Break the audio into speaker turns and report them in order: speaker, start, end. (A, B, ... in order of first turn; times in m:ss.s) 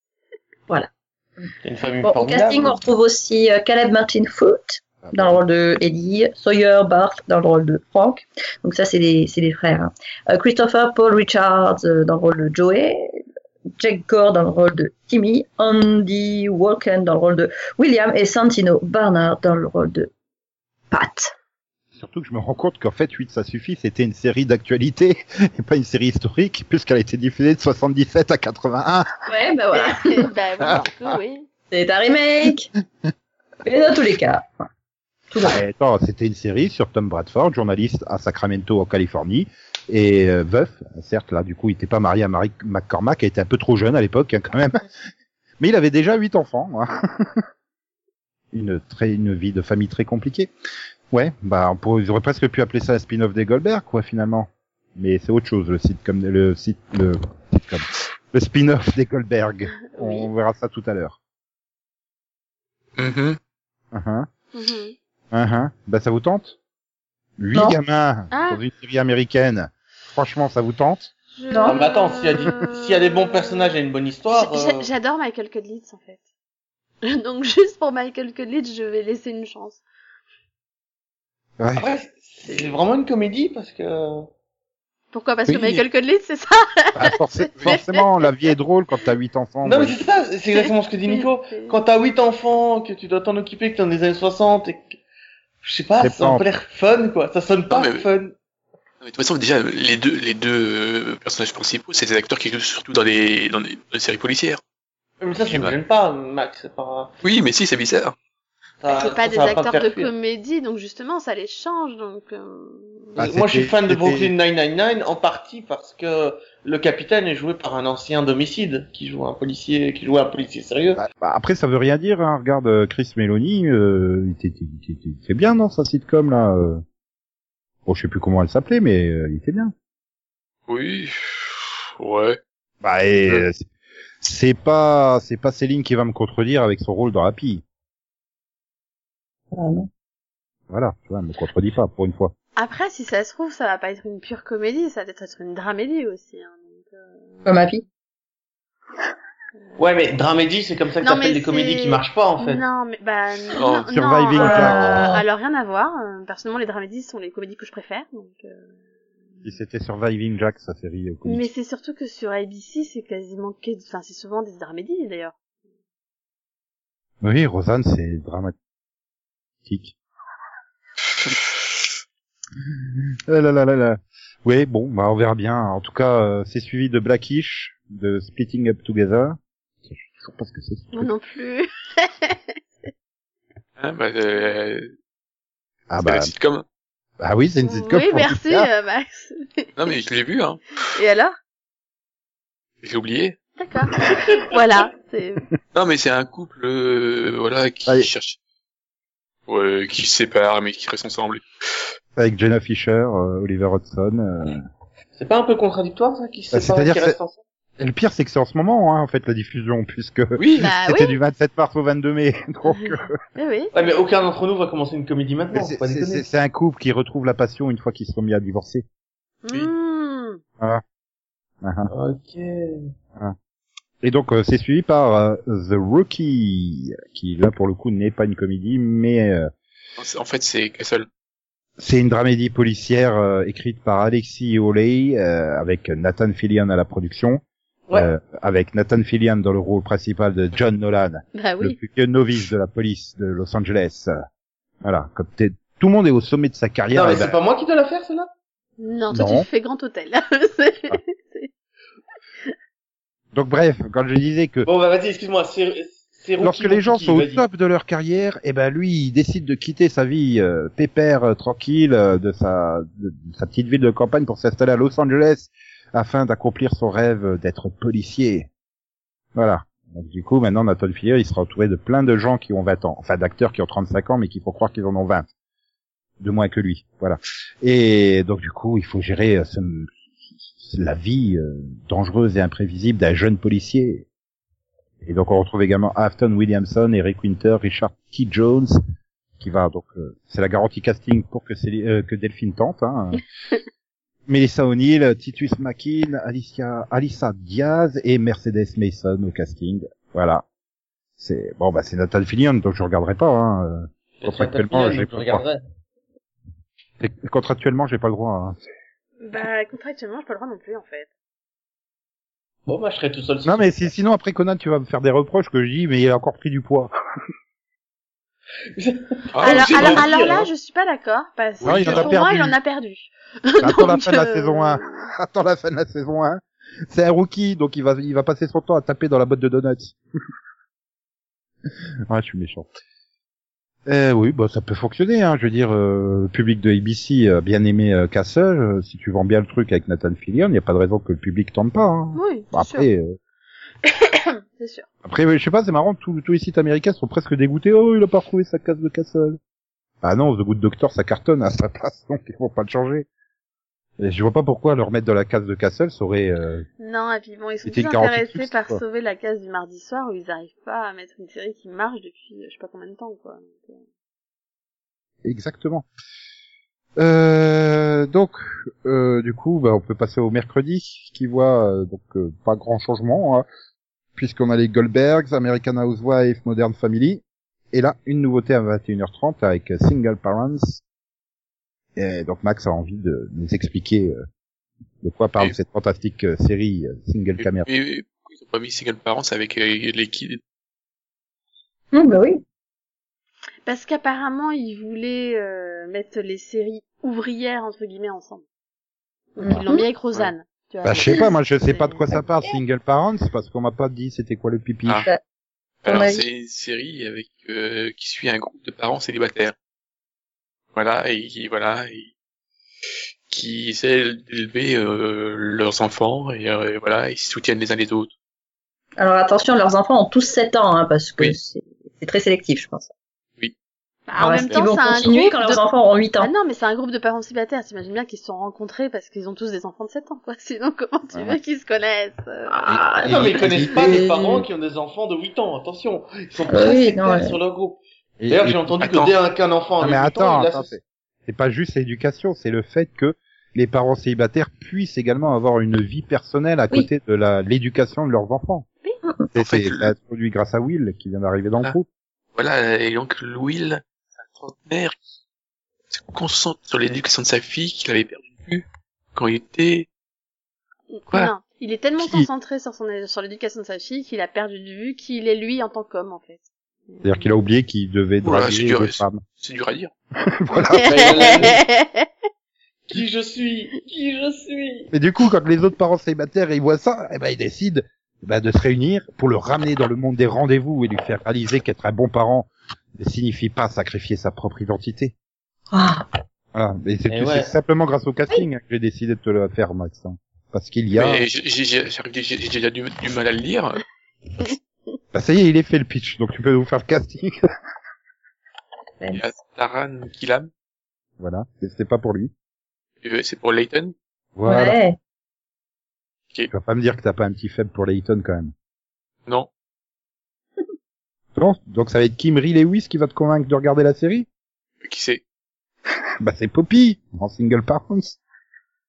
0:01.6-0:02.7 A
0:02.0-0:13.2 B
0:05.0-0:05.4 C
0:13.8-0:20.1 B
0:20.9-0:21.3 B
0:21.9-0:29.1 C
0:29.3-0:30.2 B
0:29.7-0:31.5 D
0:31.7-0:32.7 B
0:33.6-0:34.4 B
0:35.3-0:35.6 B
0:35.4-0:44.9 C
0:45.6-0:47.4 C
0:48.5-0:50.5 C
0:51.1-1:01.2 C
0:59.9-1:00.3 D
1:03.0-1:03.4 E
1:03.9-1:04.3 C
1:04.5-1:04.9 D
1:05.3-1:06.6 C
1:07.4-1:11.1 C
1:08.3-1:08.6 D
1:11.3-1:13.7 D
1:11.6-1:14.9 A
1:14.3-1:16.2 D
1:17.0-1:19.8 D
1:21.6-1:21.9 C
1:21.8-1:24.2 A
1:22.4-1:22.7 D
1:25.1-1:28.3 D
1:27.0-1:30.0 C
1:29.6-1:35.0 A
1:31.1-1:31.8 D
1:35.6-1:38.3 A
1:36.0-1:36.4 C
1:37.7-1:38.0 E
1:39.0-1:44.6 E
1:45.2-1:47.1 A
1:45.5-1:45.7 E
1:47.2-1:48.2 E
1:48.8-1:50.1 A
1:48.9-1:53.1 D
1:53.2-1:54.3 C
1:53.2-2:01.0 A
2:01.0-2:06.8 C
2:07.8-2:09.7 C
2:10.7-2:12.4 E
2:12.8-2:13.6 C
2:14.2-2:17.6 C
2:19.5-2:19.9 B
2:20.7-2:22.3 C
2:22.6-2:27.5 D
2:27.4-2:27.8 B
2:29.8-2:32.6 A
2:31.0-2:38.7 D
2:33.6-2:33.8 E
2:33.9-2:35.1 C
2:34.4-2:35.2 B
2:39.4-2:41.5 C
2:41.2-2:45.3 D
2:47.2-2:48.5 C
2:49.6-2:49.9 C
2:53.3-3:01.1 C
3:00.9-3:02.9 D
3:03.8-3:04.9 E
3:05.9-3:06.3 C
3:06.0-3:06.6 E
3:07.2-3:08.7 C
3:07.6-3:09.7 D
3:09.8-3:10.8 E
3:10.9-3:11.3 D
3:12.8-3:13.4 E
3:13.6-3:15.4 D
3:15.7-3:18.4 E
3:19.5-3:21.4 E
3:22.2-3:24.6 C
3:25.2-3:27.4 A
3:26.5-3:27.2 C
3:27.8-3:33.1 C
3:30.4-3:30.7 E
3:30.6-3:31.2 D
3:32.7-3:33.7 D
3:33.7-3:36.2 A
3:35.5-3:38.8 C
3:39.4-3:40.4 D
3:41.6-3:41.9 C
3:41.9-3:42.9 A
3:44.0-3:49.5 C
3:50.0-3:51.1 E
3:51.8-3:57.4 C
3:57.9-4:04.1 C
4:01.3-4:01.8 D
4:04.8-4:07.4 C
4:06.9-4:08.3 A
4:08.8-4:11.5 D
4:09.1-4:09.5 C
4:13.3-4:14.7 C
4:14.6-4:17.4 A
4:16.4-4:28.5 C
4:29.3-4:35.3 C
4:36.2-4:39.9 C
4:40.6-4:44.0 C
4:45.0-4:48.8 C
4:49.4-4:53.2 C
4:54.3-5:00.4 C
5:01.2-5:05.4 C
5:04.2-5:05.6 A
5:07.0-5:08.6 C
5:09.2-5:11.1 D
5:12.7-5:13.8 A
5:13.4-5:16.9 C
5:18.8-5:20.5 A
5:19.3-5:20.1 E
5:19.4-5:25.1 D
5:21.6-5:22.6 C
5:21.7-5:22.1 E
5:23.6-5:29.9 C
5:32.1-5:32.7 C
5:33.8-5:43.2 C
5:42.1-5:42.9 D
5:43.8-5:44.8 D
5:45.0-5:49.4 C
5:50.0-5:53.1 C
5:54.0-5:56.6 C
5:56.8-6:03.8 D
5:57.6-5:58.8 C
6:05.2-6:05.9 C
6:07.0-6:13.4 C
6:14.2-6:20.8 C
6:22.0-6:24.2 C
6:25.0-6:27.7 C
6:27.4-6:30.4 E
6:31.9-6:32.4 B
6:33.6-6:38.4 D
6:39.3-6:42.1 D
6:39.4-6:39.8 B
6:40.8-6:45.1 C
6:45.8-6:49.5 E
6:45.8-6:46.2 B
6:50.7-6:52.1 E
6:53.3-6:58.1 E
6:59.0-7:02.9 B
7:04.1-7:05.6 D
7:04.2-7:06.3 B
7:06.2-7:12.5 D
7:12.5-7:14.4 B
7:12.7-7:14.0 C
7:13.0-7:20.7 A
7:16.5-7:17.4 B
7:18.2-7:18.8 C
7:18.8-7:19.1 E
7:19.8-7:28.6 C
7:29.3-7:31.9 C
7:29.4-7:29.9 E
7:32.3-7:35.0 E
7:35.9-7:39.9 E
7:40.9-7:47.2 D
7:42.0-7:42.3 C
7:47.0-7:49.2 C
7:48.2-7:49.9 E
7:50.3-7:51.4 C
7:50.7-7:52.1 D
7:50.9-7:51.6 A
7:50.9-7:51.4 E
7:52.9-7:54.9 A
7:54.9-8:05.1 C
8:05.7-8:06.0 B
8:06.5-8:11.2 C
8:07.1-8:07.5 A
8:10.9-8:13.8 E
8:15.1-8:17.3 C
8:19.0-8:19.3 B
8:19.1-8:20.5 E
8:21.2-8:22.3 C
8:23.0-8:23.9 E
8:24.4-8:24.8 C
8:24.4-8:25.0 B
8:26.5-8:28.5 C
8:31.3-8:34.3 C
8:34.8-8:35.2 E
8:36.2-8:38.2 C